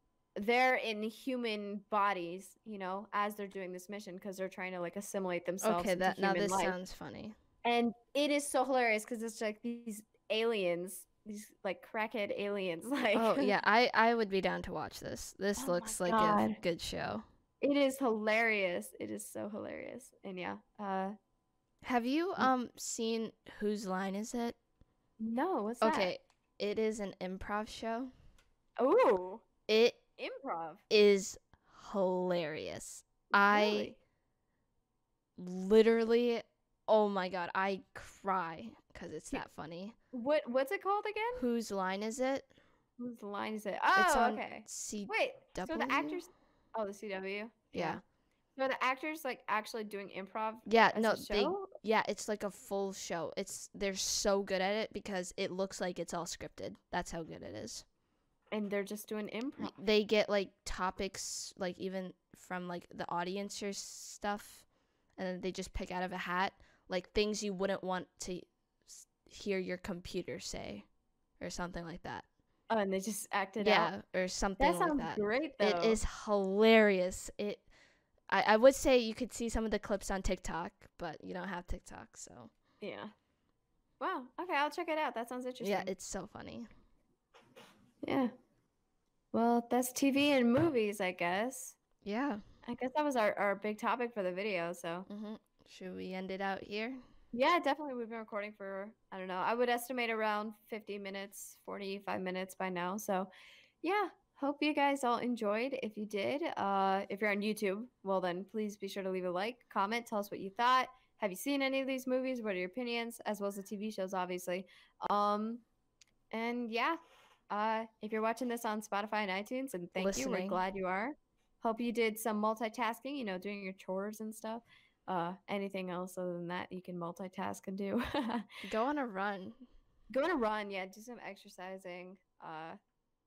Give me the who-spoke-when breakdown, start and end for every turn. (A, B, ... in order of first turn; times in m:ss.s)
0:00.4-0:06.8 A
0:05.6-0:07.4 B
0:07.6-0:13.5 A
0:13.2-0:17.2 B
0:15.6-0:16.6 A
0:17.6-0:21.2 A
0:21.8-0:24.6 B
0:25.2-0:26.1 A
0:25.8-0:28.1 B
0:28.8-0:29.4 A
0:29.7-0:30.0 B
0:30.2-0:30.8 A
0:30.9-0:33.9 B
0:33.4-0:34.0 A
0:35.4-0:40.0 B
0:40.1-0:41.4 A
0:41.4-0:42.5 B
0:43.0-0:48.0 A
0:43.9-0:46.2 B
0:47.7-0:48.0 B
0:48.6-0:51.7 A
0:50.7-0:57.8 B
0:58.5-0:59.8 A
0:59.6-1:04.6 B
1:05.2-1:10.9 B
1:11.4-1:12.2 B
1:12.7-1:13.9 A
1:13.6-1:17.7 B
1:14.6-1:16.0 A
1:18.3-1:22.5 B
1:22.8-1:23.1 A
1:24.0-1:25.9 A
1:25.6-1:26.7 B
1:28.0-1:28.3 A
1:29.3-1:31.8 A
1:32.0-1:32.4 B
1:32.7-1:35.1 A
1:35.1-1:37.0 B
1:37.3-1:43.3 A
1:43.8-1:55.6 A
1:56.3-1:57.0 A
1:57.5-2:08.5 A
2:00.0-2:00.6 B
2:08.6-2:09.6 B
2:10.1-2:12.8 A